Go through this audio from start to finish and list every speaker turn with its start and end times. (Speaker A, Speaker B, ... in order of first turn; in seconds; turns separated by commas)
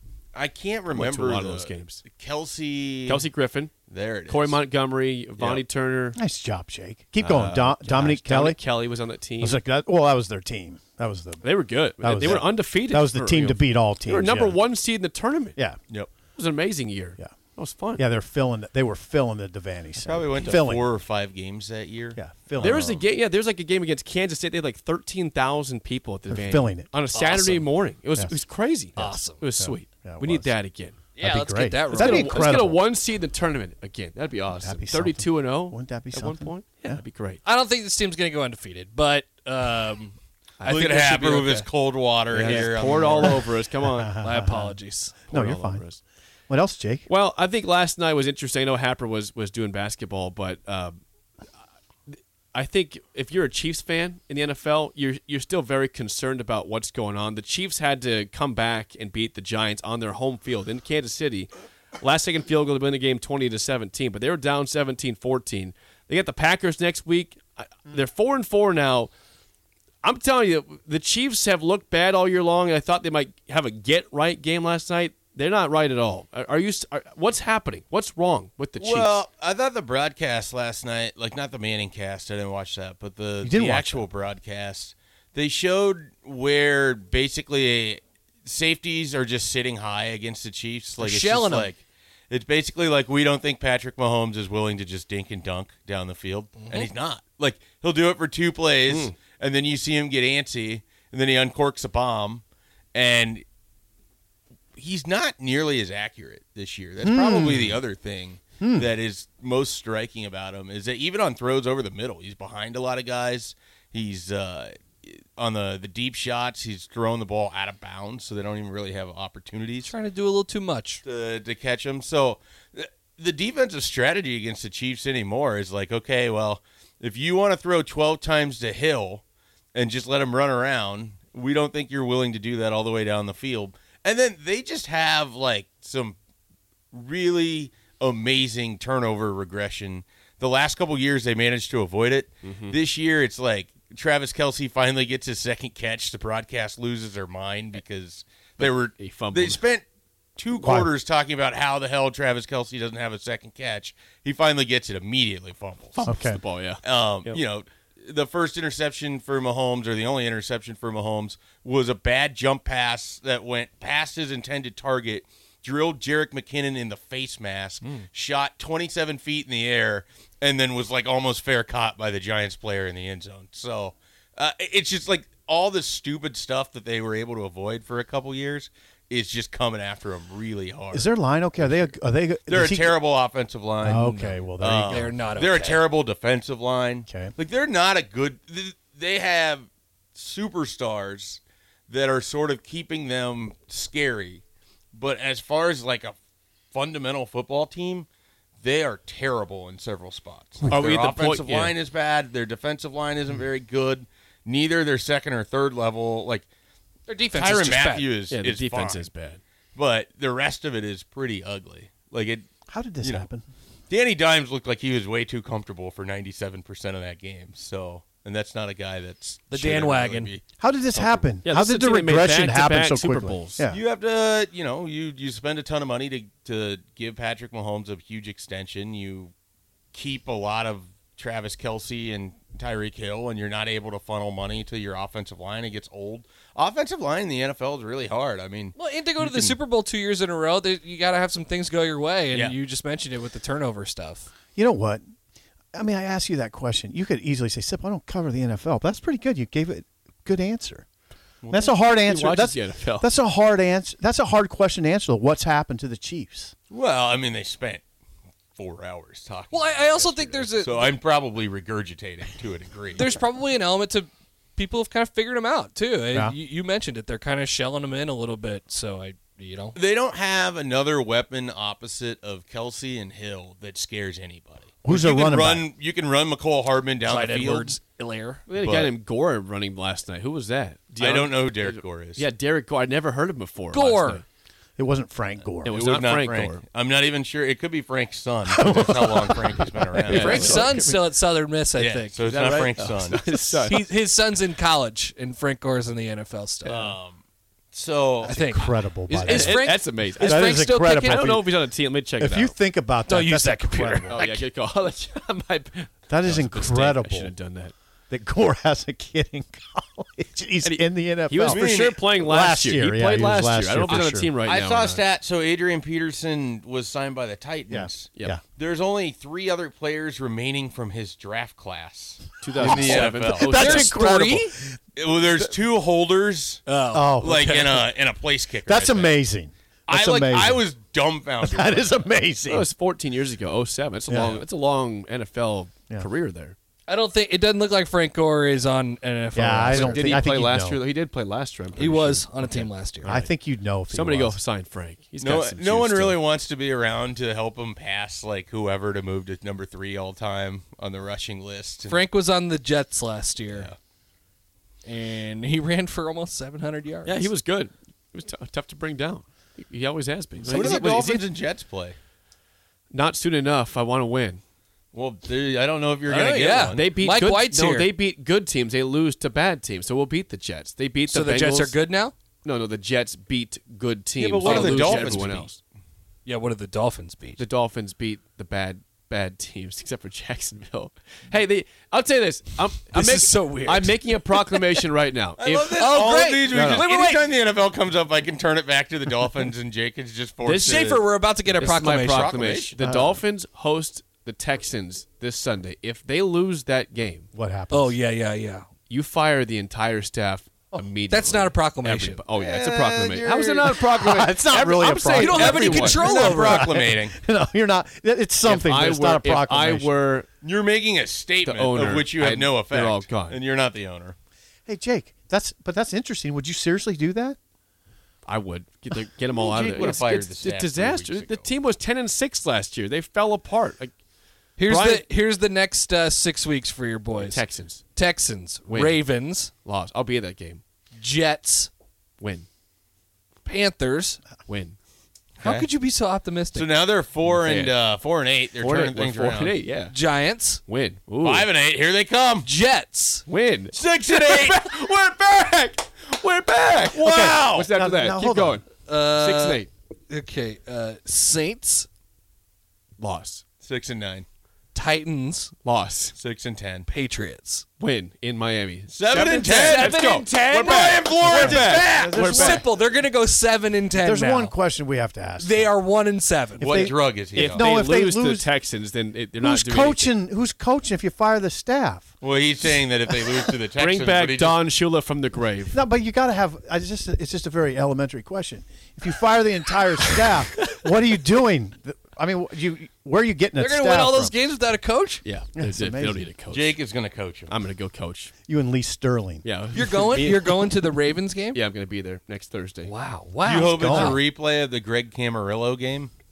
Speaker A: 0.3-3.3, Speaker B: 0.9-2.0, Speaker B: 3.0-3.7, Speaker A: 3.9-4.6, Speaker B: 4.2-6.2, Speaker A: 5.4-5.6, Speaker C: 6.1-8.8, Speaker B: 7.2-9.6, Speaker C: 9.4-14.6, Speaker B: 11.4-15.6, Speaker B: 16.3-18.0, Speaker C: 17.9-20.9, Speaker A: 20.0-22.8, Speaker C: 22.1-23.0, Speaker B: 22.6-31.0, Speaker C: 26.3-26.9, Speaker D: 27.1-27.7, Speaker D: 28.9-29.4, Speaker C: 28.9-30.6, Speaker D: 31.1-32.5, Speaker C: 31.2-32.8, Speaker B: 31.9-37.4, Speaker C: 34.5-37.0, Speaker D: 37.4-41.7, Speaker A: 40.7-43.5, Speaker B: 42.3-44.1, Speaker C: 43.8-45.8, Speaker D: 44.2-45.2, Speaker B: 45.3-46.0, Speaker C: 46.5-47.1, Speaker B: 47.1-51.0, Speaker B: 52.1-69.1, Speaker B: 70.0-79.2, Speaker A: 78.8-103.4, Speaker C: 83.4-84.0, Speaker D: 91.0-91.7, Speaker D: 96.6-96.9, Speaker B: 98.9-99.1, Speaker A: 104.7-119.9, Speaker C: 107.0-107.8, Speaker C: 108.6-108.9, Speaker D: 119.8-121.0, Speaker A: 121.0-129.2, Speaker A: 129.7-136.2, Speaker A: 136.9-149.8, Speaker B: 142.4-142.7, Speaker B: 148.6-149.6, Speaker A: 150.4-156.1, Speaker C: 150.6-150.9, Speaker B: 155.9-157.4, Speaker C: 156.1-156.4, Speaker A: 156.8-181.9, Speaker C: 180.9-183.0, Speaker A: 182.4-184.1, Speaker C: 183.8-185.1, Speaker D: 183.9-185.9, Speaker A: 184.6-196.2, Speaker C: 187.1-187.3, Speaker A: 196.7-198.1, Speaker A: 198.6-206.5, Speaker B: 200.7-201.7, Speaker D: 207.1-208.1, Speaker A: 207.3-209.1, Speaker B: 208.3-209.4, Speaker A: 209.7-212.5, Speaker C: 212.7-213.4, Speaker A: 213.0-213.3, Speaker A: 213.9-220.4, Speaker D: 219.5-220.3, Speaker C: 220.6-223.8, Speaker B: 221.0-223.6, Speaker A: 223.7-229.3, Speaker A: 229.9-239.6, Speaker D: 238.7-244.3, Speaker A: 242.3-242.6, Speaker C: 244.5-245.0, Speaker C: 245.7-250.8, Speaker A: 251.4-251.7, Speaker C: 251.5-256.5, Speaker B: 252.0-253.1, Speaker A: 256.7-257.8, Speaker A: 258.6-263.1, Speaker D: 259.5-260.9, Speaker D: 262.9-269.8, Speaker A: 269.8-277.8, Speaker C: 274.8-275.7, Speaker D: 277.0-278.4, Speaker B: 278.5-284.2, Speaker A: 278.6-278.9, Speaker A: 280.9-282.3, Speaker D: 283.7-284.2, Speaker C: 284.8-285.8, Speaker B: 285.6-286.6, Speaker A: 285.7-290.6, Speaker C: 288.4-290.6, Speaker B: 290.0-291.1, Speaker D: 290.1-292.8, Speaker A: 291.8-293.2, Speaker B: 292.8-293.8, Speaker D: 293.6-296.9, Speaker A: 296.6-297.2, Speaker A: 297.7-298.4, Speaker D: 298.2-301.3, Speaker C: 298.2-301.6, Speaker B: 299.2-302.6, Speaker C: 302.2-304.2, Speaker D: 303.1-304.4, Speaker B: 304.1-307.7, Speaker C: 306.1-307.3, Speaker C: 308.1-314.3, Speaker B: 310.6-315.0, Speaker A: 311.4-312.1, Speaker A: 313.9-323.6, Speaker C: 317.7-318.4, Speaker B: 322.4-324.0, Speaker C: 322.6-324.8, Speaker D: 323.5-324.6, Speaker A: 324.9-326.6, Speaker D: 326.7-327.8, Speaker C: 326.9-327.4, Speaker A: 327.2-329.2, Speaker C: 328.6-330.6, Speaker A: 329.9-331.9, Speaker C: 331.4-332.7, Speaker B: 332.4-336.6, Speaker C: 334.1-334.4, Speaker D: 336.9-340.2, Speaker C: 339.3-340.8, Speaker B: 339.7-343.3, Speaker D: 341.8-343.1, Speaker C: 343.0-344.4, Speaker B: 343.9-346.2, Speaker A: 345.2-352.1, Speaker D: 351.8-353.7, Speaker A: 353.5-353.8, Speaker D: 354.8-357.3, Speaker B: 357.0-361.2, Speaker A: 360.4-361.9, Speaker D: 360.5-360.8, Speaker B: 362.9-364.4, Speaker A: 364.9-366.9, Speaker D: 366.1-367.9, Speaker B: 366.7-371.8, Speaker D: 371.1-372.1, Speaker B: 372.4-375.6, Speaker A: 374.1-375.6, Speaker D: 374.4-375.2, Speaker D: 376.2-377.4, Speaker B: 377.4-385.9, Speaker D: 382.9-384.8, Speaker A: 385.4-391.0, Speaker D: 385.8-387.3, Speaker B: 386.5-386.9, Speaker B: 390.4-391.0, Speaker D: 390.6-392.6, Speaker B: 391.6-397.3, Speaker A: 391.7-392.8, Speaker C: 392.8-393.2, Speaker C: 397.3-398.0, Speaker D: 397.7-398.7, Speaker B: 398.9-406.0, Speaker D: 401.1-402.2, Speaker C: 402.4-409.9, Speaker D: 405.1-406.7, Speaker A: 405.5-407.2, Speaker B: 408.4-410.3, Speaker A: 410.4-414.1, Speaker B: 411.4-413.4, Speaker C: 414.7-417.4, Speaker B: 418.2-423.9, Speaker A: 419.3-421.5, Speaker D: 424.6-429.5, Speaker B: 424.7-425.0, Speaker B: 427.2-427.8, Speaker B: 428.7-430.6, Speaker D: 431.0-431.7, Speaker B: 432.2-432.5, Speaker D: 433.4-434.2, Speaker B: 434.5-434.8, Speaker A: 435.4-435.7, Speaker D: 435.4-436.8, Speaker A: 436.5-439.6, Speaker B: 437.2-437.8, Speaker B: 438.6-439.9, Speaker D: 439.9-440.6, Speaker B: 440.6-441.5, Speaker A: 441.2-442.5, Speaker D: 442.4-443.3, Speaker B: 443.3-449.7, Speaker A: 443.7-444.7, Speaker A: 446.6-447.7, Speaker C: 447.0-448.6, Speaker D: 448.9-451.9, Speaker B: 453.0-453.4, Speaker A: 453.6-454.2, Speaker D: 454.7-455.5, Speaker B: 455.6-456.1, Speaker A: 456.1-456.9, Speaker D: 456.9-457.6, Speaker B: 457.8-462.7, Speaker A: 458.9-462.2, Speaker D: 459.6-461.0, Speaker C: 461.2-462.6, Speaker D: 462.1-464.5, Speaker C: 463.9-465.8, Speaker D: 465.4-466.9, Speaker C: 466.6-468.5, Speaker A: 466.6-467.7, Speaker B: 467.3-470.1, Speaker C: 469.4-472.7, Speaker A: 472.2-474.6, Speaker B: 473.8-475.8, Speaker C: 475.7-484.3, Speaker B: 480.2-480.7, Speaker D: 483.6-485.2, Speaker B: 485.2-486.7, Speaker C: 485.5-486.3, Speaker A: 486.5-487.6, Speaker B: 487.5-488.3, Speaker C: 488.4-489.5, Speaker B: 489.4-490.7, Speaker D: 489.7-491.6, Speaker B: 491.5-492.9, Speaker D: 492.8-494.2, Speaker A: 493.4-496.1, Speaker C: 493.6-494.2